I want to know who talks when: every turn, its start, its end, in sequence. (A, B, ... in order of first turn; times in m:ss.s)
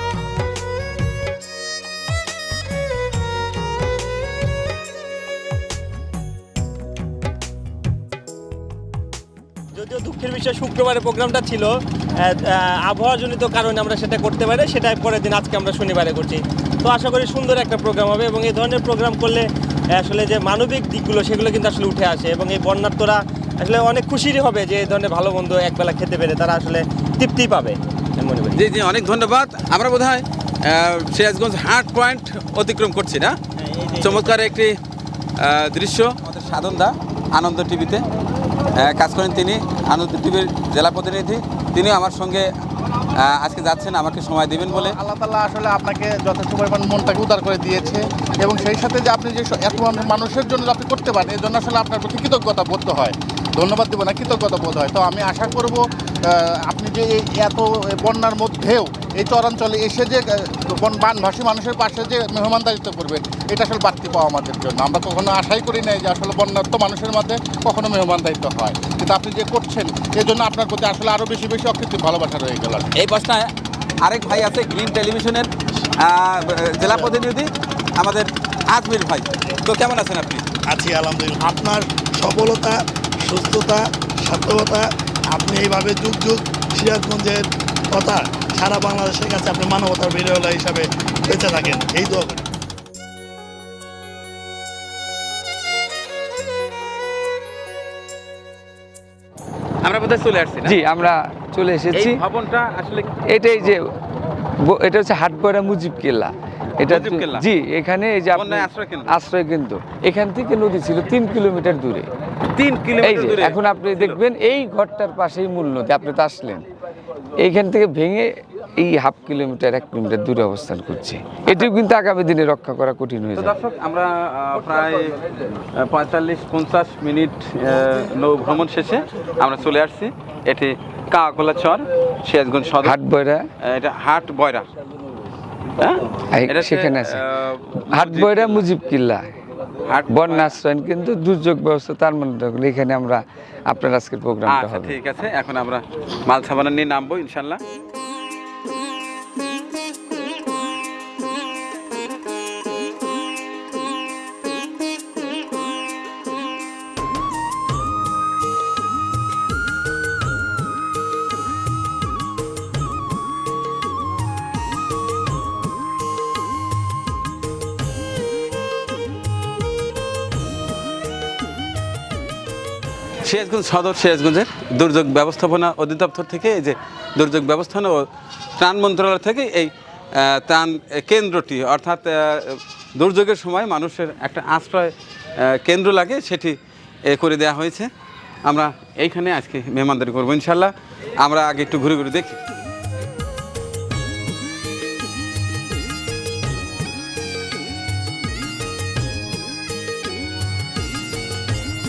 0:09.7-0:28.6 A
0:28.5-0:33.4 B
0:33.8-0:34.2 A
0:34.0-0:34.8 B
0:35.4-0:38.0 B
0:38.7-0:42.5 B
0:43.1-0:45.0 B
0:44.8-1:12.9 C
1:13.0-1:13.5 B
1:14.0-1:20.4 B
1:20.7-1:32.4 D
1:39.8-1:40.8 B
1:40.7-1:42.2 E
1:41.9-1:43.2 B
1:43.3-1:43.8 E
1:44.6-1:52.1 E
1:46.8-1:47.5 B
1:48.3-1:49.2 B
1:52.4-1:54.2 B
1:53.0-1:56.7 E
1:57.4-2:03.5 E
2:03.4-2:13.0 B
2:12.8-2:13.5 E
2:13.6-2:14.7 B
2:15.8-2:18.6 B
2:16.3-2:17.2 E
2:17.8-2:19.3 E
2:19.8-2:20.6 B
2:20.1-2:25.0 E
2:24.5-2:27.6 B
2:53.2-3:07.9 B
3:08.4-3:12.4 B